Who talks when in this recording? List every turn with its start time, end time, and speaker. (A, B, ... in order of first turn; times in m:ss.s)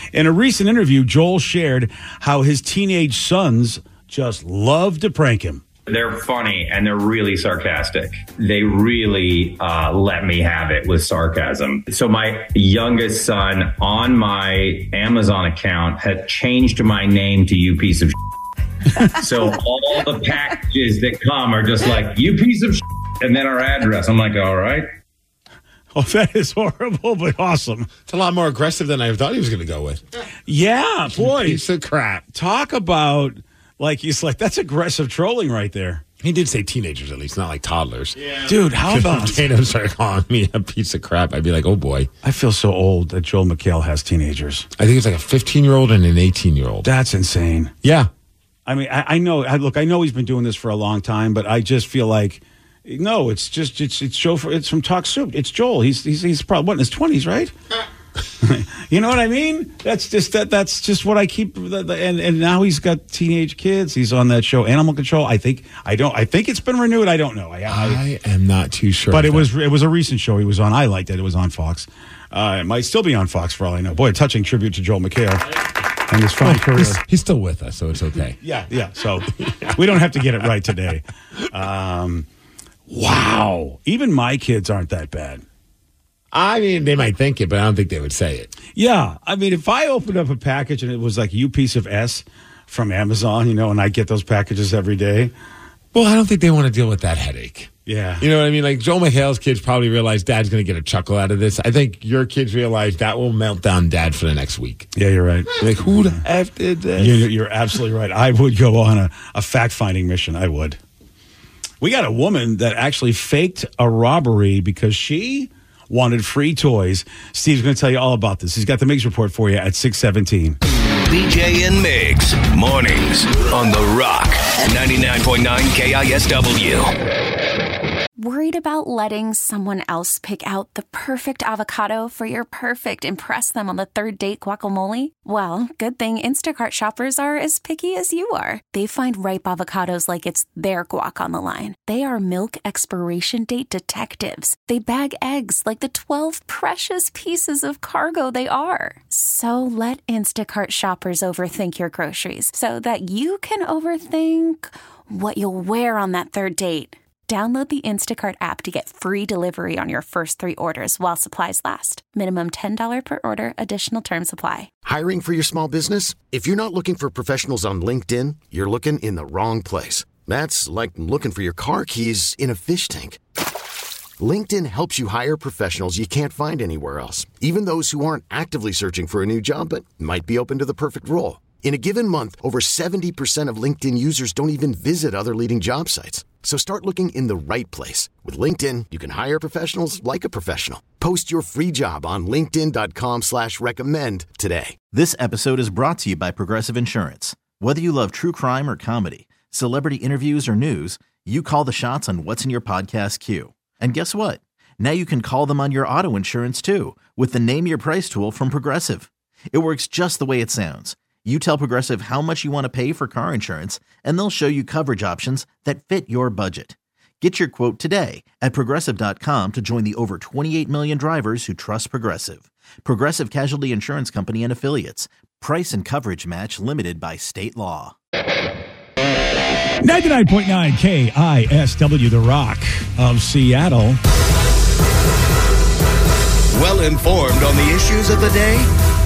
0:00.1-0:05.6 A
0:05.9-0:18.2 B
0:19.0-0:24.9 B
0:25.9-0:27.9 A
0:28.1-0:30.0 C
0:30.5-0:31.6 A
0:31.2-0:32.2 C
0:32.3-0:36.0 A
0:36.2-0:42.1 C
0:38.5-0:39.4 A
0:42.2-0:44.7 A
0:44.8-0:46.9 C
0:46.8-0:47.7 A
0:47.8-0:48.1 C
0:48.7-0:57.5 A
0:58.4-1:08.0 A
1:07.7-1:09.5 C
1:09.1-1:15.5 A
1:16.1-1:17.0 A
1:16.4-1:18.4 C
1:18.4-1:22.3 A
1:19.4-1:19.8 C
1:22.9-1:25.4 A
1:26.3-1:28.5 C
1:28.8-1:35.3 A
1:35.9-1:44.9 C
1:37.9-1:38.2 A
1:45.0-1:45.6 A
1:45.5-1:47.3 C
1:47.0-1:50.8 A
1:51.8-2:00.6 A
2:01.1-2:06.9 D
2:08.2-2:44.7 E
2:44.8-2:53.2 F
2:54.2-3:14.8 F
3:14.9-3:48.0 G
3:49.8-3:54.0 A
3:56.5-3:58.7 D